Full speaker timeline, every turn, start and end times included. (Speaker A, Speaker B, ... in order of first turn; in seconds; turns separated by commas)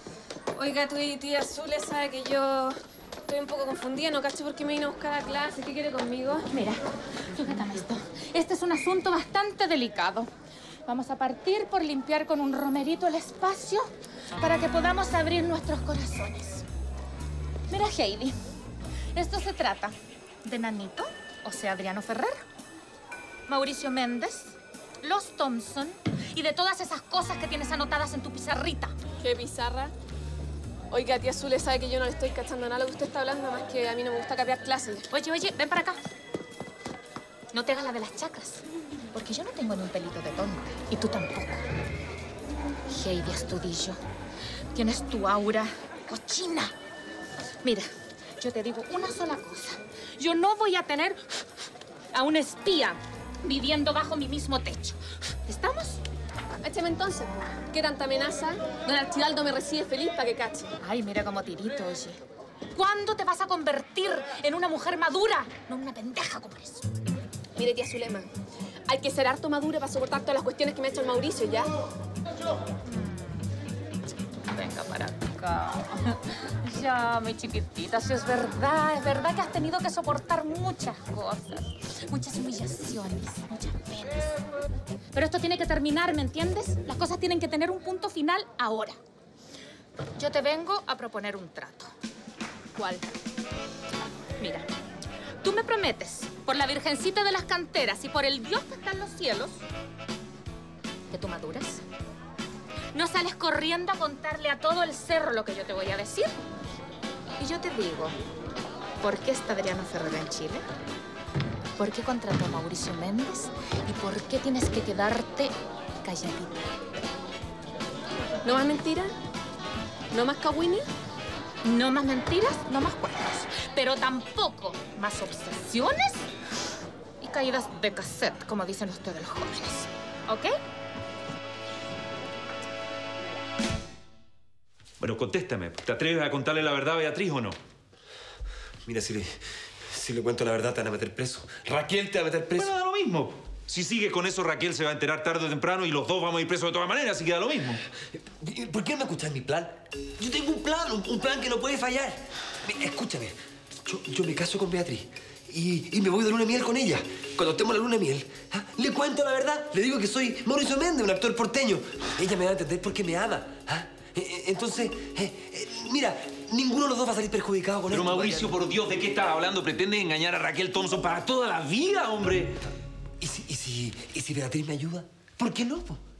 Speaker A: 0.5-2.8, Speaker A: 3.3-6.5, Speaker B: 6.5-10.3, Speaker B: 10.8-16.6, Speaker B: 17.7-18.4, Speaker B: 19.1-22.4, Speaker B: 23.5-28.9, Speaker A: 29.2-29.9, Speaker A: 30.9-35.0, Speaker B: 35.1-36.0, Speaker B: 37.5-41.6, Speaker B: 42.9-44.0, Speaker B: 44.7-46.7, Speaker B: 48.4-51.2, Speaker B: 52.1-56.0, Speaker A: 56.6-60.7, Speaker B: 60.8-62.2, Speaker B: 62.7-66.8, Speaker A: 67.5-68.3, Speaker A: 68.9-71.7, Speaker B: 72.9-73.5, Speaker B: 74.4-84.4, Speaker B: 85.1-89.0, Speaker B: 90.2-91.9, Speaker B: 94.4-94.7, Speaker B: 95.4-99.6, Speaker B: 101.1-101.8, Speaker B: 102.9-106.3, Speaker B: 107.4-108.2, Speaker B: 109.0-110.6, Speaker B: 111.8-116.7, Speaker A: 118.4-119.1, Speaker A: 120.1-120.8, Speaker B: 121.6-126.2, Speaker B: 127.2-130.5, Speaker C: 135.0-137.6, Speaker D: 138.8-142.7, Speaker C: 142.6-147.8, Speaker D: 148.1-168.6, Speaker C: 167.9-172.6, Speaker D: 173.2-176.0